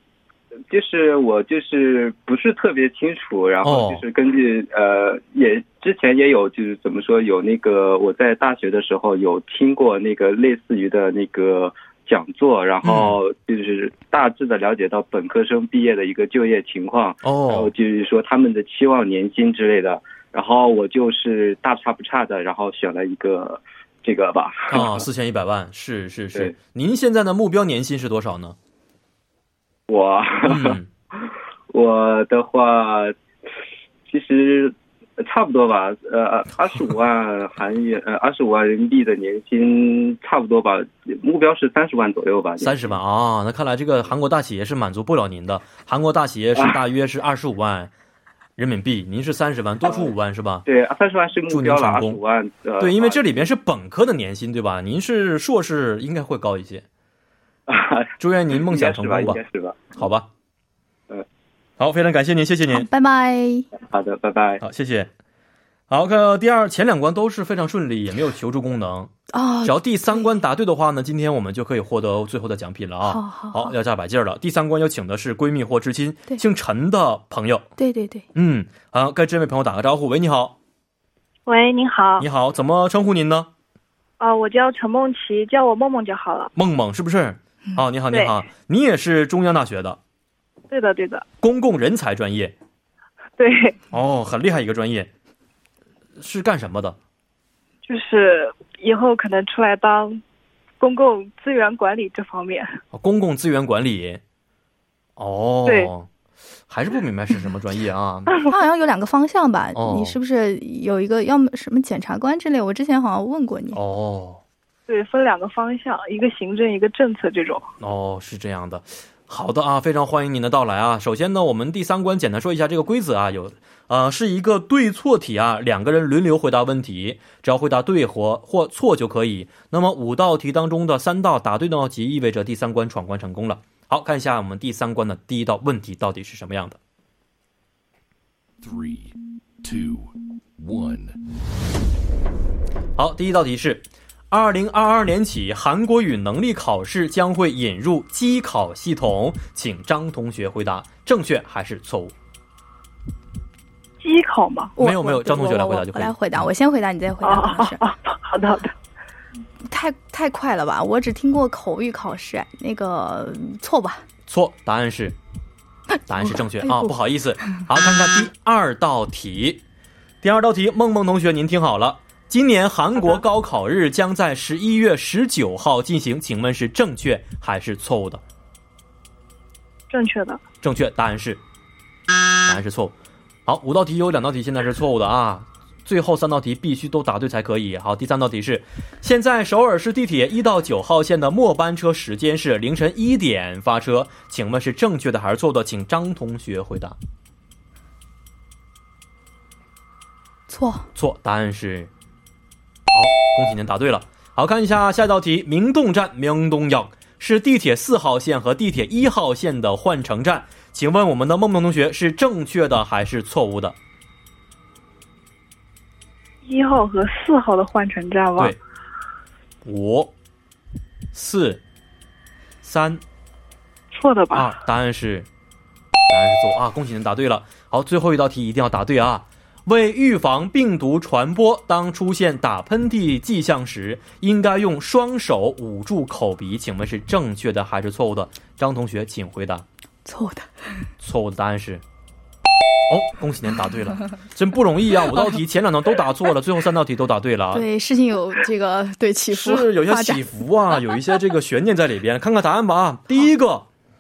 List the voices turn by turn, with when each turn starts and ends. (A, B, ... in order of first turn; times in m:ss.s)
0:00.7-0:25.0 A
0:03.6-0:04.0 B
0:12.8-0:13.2 B
0:17.2-0:17.7 B
0:24.7-0:28.6 B
0:29.9-0:33.2 A
0:30.5-0:30.9 B
0:34.1-0:43.0 A
0:42.6-0:47.9 B
0:48.6-0:50.7 B
0:49.8-0:50.1 A
0:50.7-0:53.5 A
0:51.5-0:52.2 B
0:52.8-0:56.8 B
0:57.7-1:00.0 A
0:58.2-0:59.4 B
1:00.0-1:00.3 B
1:01.8-1:02.9 B
1:02.7-1:03.7 C
1:03.8-1:04.6 A
1:04.6-1:05.1 B
1:05.9-1:09.1 B
1:09.3-1:10.3 C
1:09.6-1:17.7 B
1:13.0-1:13.8 C
1:17.8-1:18.3 C
1:18.4-1:20.6 B
1:21.5-1:22.3 D
1:22.2-1:23.5 B
1:24.2-1:26.5 D
1:26.6-1:30.0 B
1:28.1-1:28.4 D
1:30.7-1:31.2 D
1:31.4-1:32.5 B
1:33.4-1:33.8 D
1:33.9-1:35.1 B
1:36.2-1:37.0 B
1:37.8-1:40.2 D
1:40.8-1:42.8 D
1:42.9-1:44.2 B
1:45.2-1:46.1 B
1:45.7-1:45.9 D
1:46.7-1:48.3 B
1:48.4-1:53.8 C
1:49.8-1:50.2 B
1:53.7-1:54.4 B
1:54.9-1:57.7 D
1:57.8-2:16.8 B
2:18.6-2:21.2 E
2:23.0-2:32.1 B
2:34.0-2:34.7 D
2:34.8-2:37.8 C
2:34.8-2:36.5 B
2:37.2-2:38.7 D
2:39.6-2:44.0 C
2:44.3-2:45.2 B
2:46.1-2:49.6 B
2:46.6-2:47.0 C
2:50.2-2:58.2 B
2:59.9-3:00.4 D
3:00.6-3:01.4 B
3:02.4-3:02.9 B
3:03.5-3:17.0 B
3:20.5-3:20.9 C
3:21.0-3:21.9 B
3:22.9-3:33.8 B
3:36.4-3:38.6 D
3:39.6-3:40.1 B
3:41.1-3:41.6 B
3:42.6-3:43.0 B
3:43.9-3:44.5 D
3:44.3-3:45.3 B
3:46.1-3:59.6 B
4:00.0-4:00.5 C
4:01.0-4:01.8 B
4:02.9-4:07.7 B
4:07.5-4:10.2 C
4:09.3-4:13.7 B